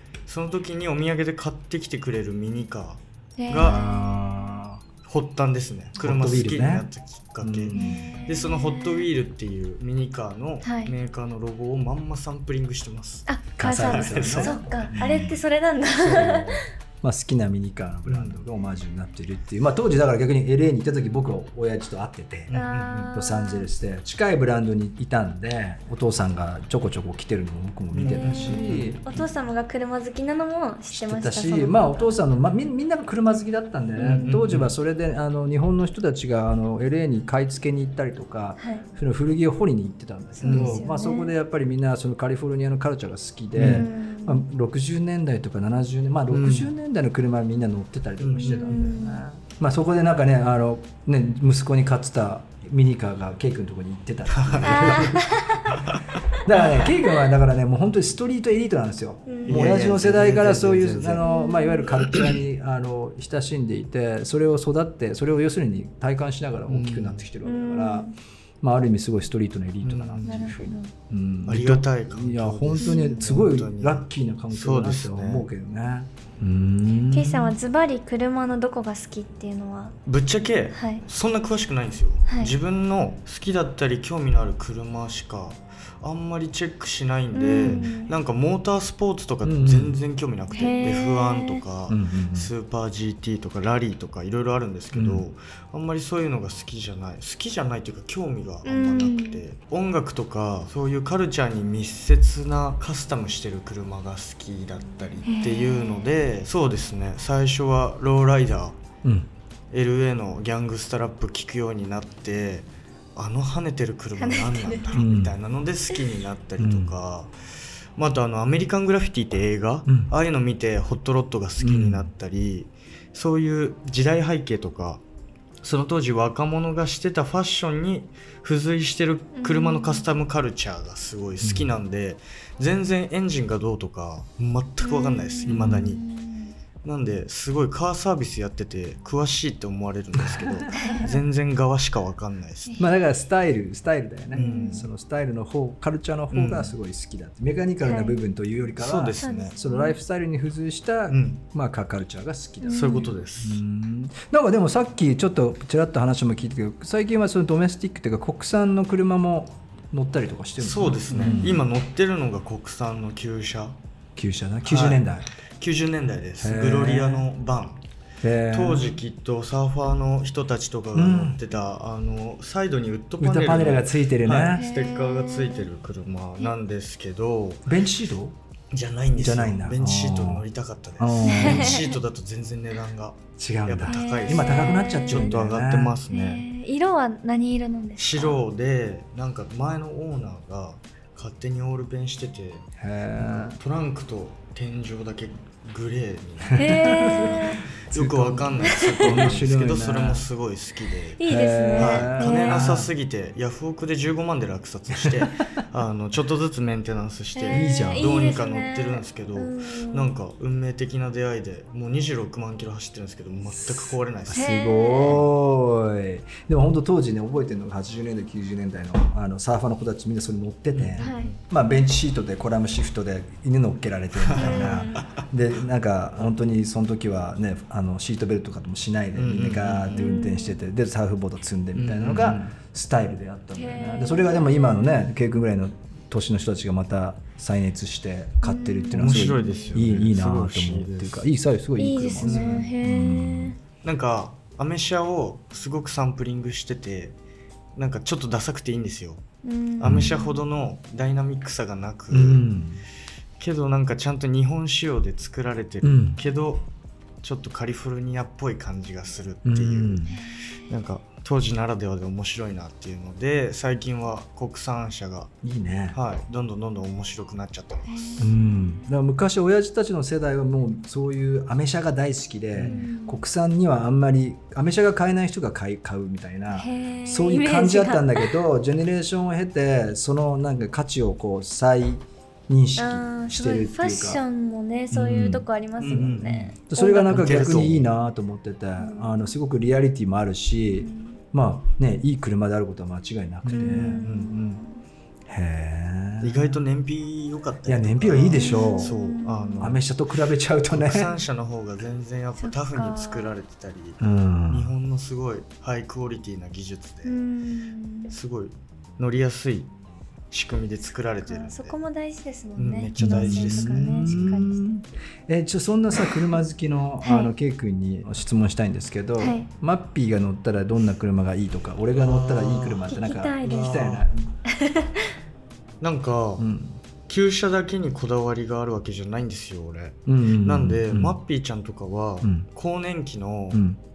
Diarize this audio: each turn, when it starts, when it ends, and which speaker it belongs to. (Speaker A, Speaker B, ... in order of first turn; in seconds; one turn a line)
Speaker A: 0.3-3.8
Speaker B: 3.4-4.0
Speaker C: 3.5-4.8
Speaker A: 5.0-14.9
Speaker C: 6.0-6.9
Speaker C: 7.4-8.1
Speaker B: 7.7-9.1
Speaker B: 10.6-10.9
Speaker B: 13.3-16.6
Speaker C: 13.6-15.4
Speaker A: 16.0-16.6
Speaker C: 16.1-16.4
Speaker C: 17.0-22.5
Speaker A: 18.1-18.4
Speaker A: 22.5-23.1
Speaker B: 22.5-23.7
Speaker C: 23.1-29.2
Speaker A: 27.9-29.0
Speaker B: 28.1-32.2
Speaker C: 30.9-55.6
Speaker B: 34.0-34.3
Speaker A: 34.0-34.7
Speaker B: 38.6-38.9
Speaker B: 40.4-41.3
Speaker A: 40.4-40.8
Speaker A: 43.6-43.9
Speaker B: 43.6-44.4
Speaker A: 46.3-46.7
Speaker A: 48.2-48.8
Speaker B: 48.5-49.2
Speaker A: 54.3-56.0
Speaker B: 54.6-55.7
Speaker C: 56.4-68.1
Speaker B: 59.3-59.6
Speaker A: 59.5-61.2
Speaker B: 61.2-62.0
Speaker A: 62.1-62.4
Speaker A: 66.7-67.3
Speaker B: 67.4-68.2
Speaker C: 68.6-77.6
Speaker A: 69.8-70.6
Speaker B: 70.2-70.9
Speaker A: 71.5-75.5
Speaker B: 72.8-73.3
Speaker B: 77.1-80.0
Speaker A: 80.1-108.8
Speaker B: 80.7-81.0
Speaker B: 82.3-82.5
Speaker B: 87.3-88.1
Speaker C: 89.4-90.0
Speaker B: 90.5-91.6
Speaker C: 91.9-92.5
Speaker C: 94.9-95.3
Speaker B: 98.7-99.4
Speaker B: 105.2-106.1
Speaker C: 109.0-109.3
Speaker A: 109.7-117.3
Speaker B: 114.2-115.0
Speaker C: 114.9-115.4
Speaker C: 116.6-117.0
Speaker A: 118.0-125.0
Speaker C: 121.6-122.1
Speaker A: 125.6-136.0
Speaker B: 129.3-130.1
Speaker C: 131.4-131.7
Speaker B: 134.8-136.5
Speaker C: 135.5-135.9
Speaker A: 136.8-142.8
Speaker C: 140.2-141.2
Speaker B: 140.7-141.1
Speaker C: 142.8-161.7
Speaker A: 144.3-144.8
Speaker B: 144.3-144.8
Speaker A: 146.3-146.8
Speaker B: 147.8-148.2
Speaker A: 148.8-149.5
Speaker B: 149.2-150.0
Speaker A: 151.1-151.4
Speaker B: 152.6-153.1
Speaker A: 152.7-153.6
Speaker A: 160.6-163.8
Speaker B: 161.1-161.4
Speaker C: 164.2-165.3
Speaker A: 164.7-165.1
Speaker A: 165.6-167.8
Speaker C: 166.4-167.3
Speaker C: 168.2-169.0
Speaker A: 168.5-177.7
Speaker C: 170.9-171.4
Speaker C: 173.2-174.6
Speaker B: 174.5-175.7
Speaker C: 177.7-178.4
Speaker A: 178.7-186.5
Speaker C: 179.1-180.4
Speaker C: 181.0-181.9
Speaker B: 181.2-181.9
Speaker C: 183.4-186.0
Speaker B: 183.9-185.4
Speaker B: 186.1-188.4
Speaker A: 188.0-201.2
Speaker C: 192.8-193.6
Speaker C: 196.5-200.3
Speaker B: 196.5-197.6
Speaker B: 198.6-199.2
Speaker B: 201.2-202.7
Speaker C: 201.2-202.9
Speaker A: 201.8-215.3
Speaker C: 205.0-205.3
Speaker B: 207.3-210.1
Speaker C: 207.5-208.1
Speaker C: 213.5-243.6
Speaker B: 214.3-215.2
Speaker A: 220.7-221.4
Speaker B: 221.0-221.3
Speaker A: 224.2-225.2
Speaker B: 224.3-225.1
Speaker A: 229.2-230.1
Speaker B: 229.9-230.6
Speaker A: 231.8-232.5
Speaker B: 233.5-235.1
Speaker B: 238.4-239.8
Speaker A: 238.9-241.3
Speaker B: 241.8-243.6
Speaker A: 242.2-242.7
Speaker A: 243.8-247.2
Speaker A: 247.8-249.2
Speaker B: 249.4-250.4
Speaker A: 249.8-252.5
Speaker C: 249.8-250.1
Speaker C: 252.1-252.8
Speaker A: 253.4-256.7
Speaker C: 255.8-256.2
Speaker A: 257.2-260.2
Speaker C: 259.4-260.2
Speaker A: 260.7-265.3
Speaker C: 265.4-266.0
Speaker A: 265.9-268.3
Speaker B: 267.9-268.9
Speaker C: 268.2-284.2
Speaker A: 272.5-272.9
Speaker B: 272.6-273.2
Speaker B: 276.5-278.3
Speaker B: 282.8-287.8
Speaker C: 284.9-285.4
Speaker A: 285.8-286.5
Speaker C: 286.7-294.0
Speaker A: 287.1-287.9
Speaker B: 288.8-289.1
Speaker B: 290.8-291.2
Speaker A: 293.4-294.6
Speaker B: 293.5-294.8
Speaker C: 295.3-296.6
Speaker A: 296.2-299.9
Speaker C: 297.7-299.0
Speaker B: 298.3-299.7
Speaker C: 299.6-301.1
Speaker A: 300.7-307.1
Speaker B: 302.4-303.3
Speaker C: 304.0-304.8
Speaker B: 307.1-308.1
Speaker A: 308.1-309.7
Speaker A: 310.3-311.8
Speaker B: 311.2-314.6
Speaker A: 312.6-314.5
Speaker C: 313.0-324.2
Speaker B: 317.0-317.3
Speaker B: 319.2-319.5
Speaker A: 322.0-324.1
Speaker B: 322.9-323.8
Speaker B: 324.5-325.1
Speaker A: 325.8-326.5
Speaker C: 326.4-326.8
Speaker A: 327.1-333.6
Speaker C: 330.1-331.2
Speaker C: 332.2-332.5
Speaker C: 333.5-333.8